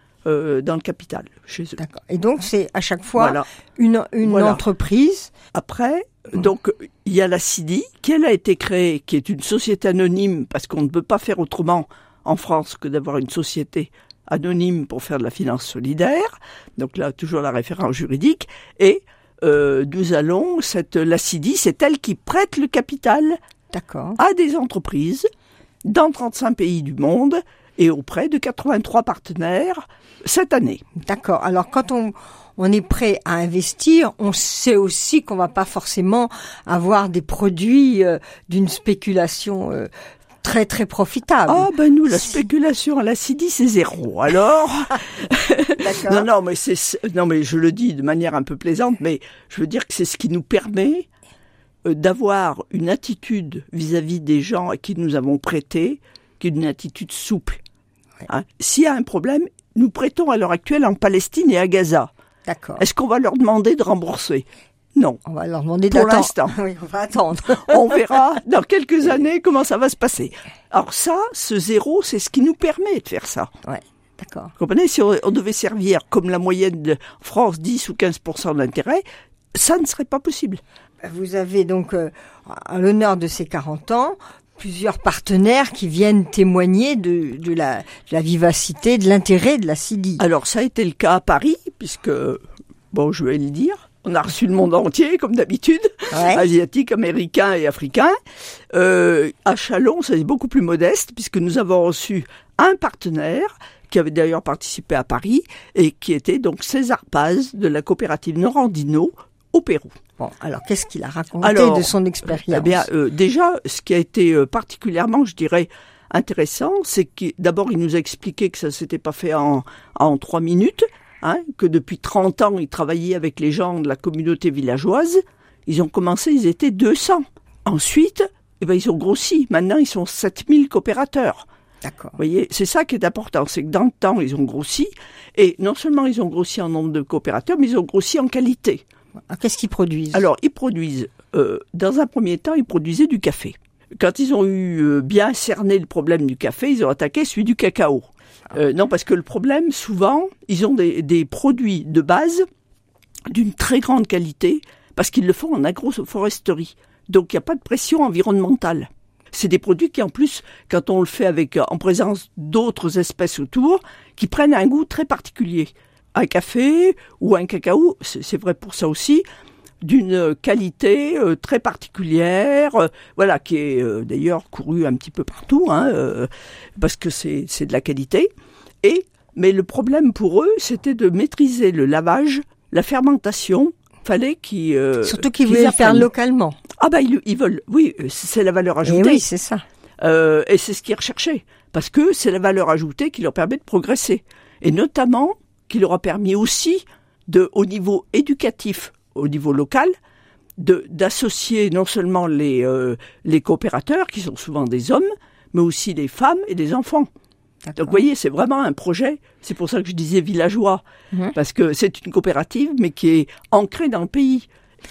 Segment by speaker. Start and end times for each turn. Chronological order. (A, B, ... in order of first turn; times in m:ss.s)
0:00.3-0:01.8 A
0:01.8-0:05.3 B
0:03.2-0:03.4 A
0:04.2-0:04.6 A
0:05.5-0:23.4 A
0:23.7-0:24.2 B
0:24.2-0:25.3 A
0:25.9-0:30.8 A
0:31.0-0:39.9 B
0:40.4-0:41.7 B
0:41.5-0:51.1 A
0:45.8-0:46.3 B
0:51.8-0:57.6 A
0:58.3-1:02.1 A
1:02.5-1:02.9 B
1:02.8-1:05.2 A
1:05.2-1:08.0 B
1:05.9-1:06.6 A
1:07.5-1:13.5 A
1:13.6-1:14.5 B
1:14.6-1:19.0 A
1:19.6-1:20.6 A
1:21.0-1:30.2 B
1:30.2-1:38.2 A
1:36.1-1:36.4 B
1:38.7-1:50.0 A
1:50.2-1:52.9 B
1:51.4-2:11.5 A
2:11.8-2:12.2 B
2:12.2-2:18.8 A
2:19.3-2:20.2 B
2:20.1-2:32.4 A
2:33.3-2:49.2 A
2:49.8-2:58.3 A
2:58.8-3:06.1 A
3:05.0-3:06.6 B
3:06.8-3:09.2 A
3:08.8-3:09.6 B
3:10.0-3:19.9 A
3:20.6-3:27.1 A
3:27.7-3:28.0 B
3:27.8-3:30.8 A
3:31.4-3:34.5 A